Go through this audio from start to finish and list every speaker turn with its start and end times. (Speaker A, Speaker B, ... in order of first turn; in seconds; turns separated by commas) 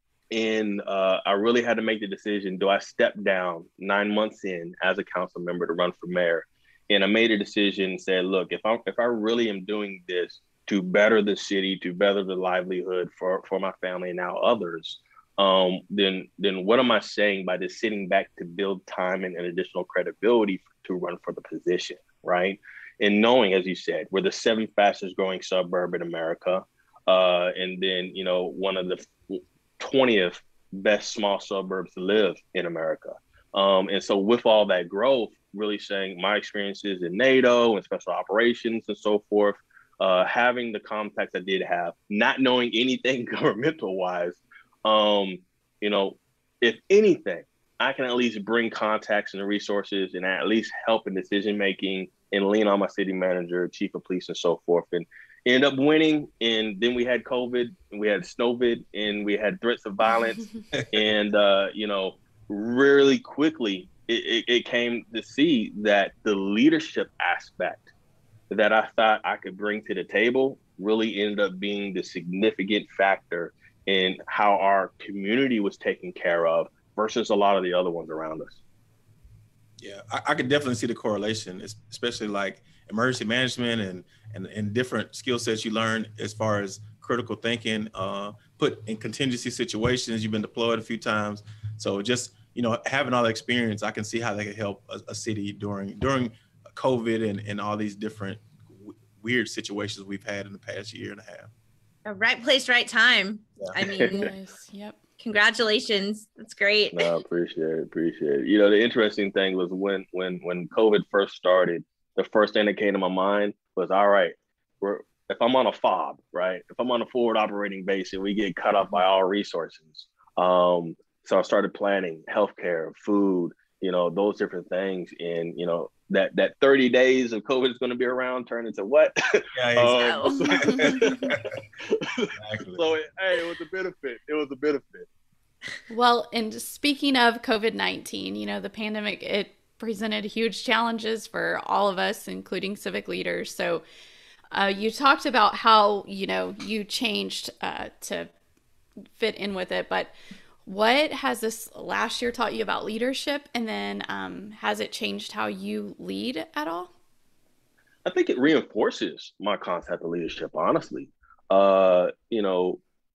Speaker A: 0.3-67.9, Speaker A: 68.5-78.6, Speaker B: 79.8-101.5, Speaker C: 102.1-104.3, Speaker A: 104.0-104.3, Speaker D: 104.0-105.0, Speaker C: 105.2-107.1, Speaker A: 106.9-135.1, Speaker B: 129.5-131.6, Speaker C: 130.0-130.3, Speaker D: 130.3-131.3, Speaker B: 132.4-132.8, Speaker D: 135.9-143.8, Speaker D: 144.5-148.3, Speaker D: 149.1-150.1, Speaker D: 150.7-156.9, Speaker A: 158.1-162.8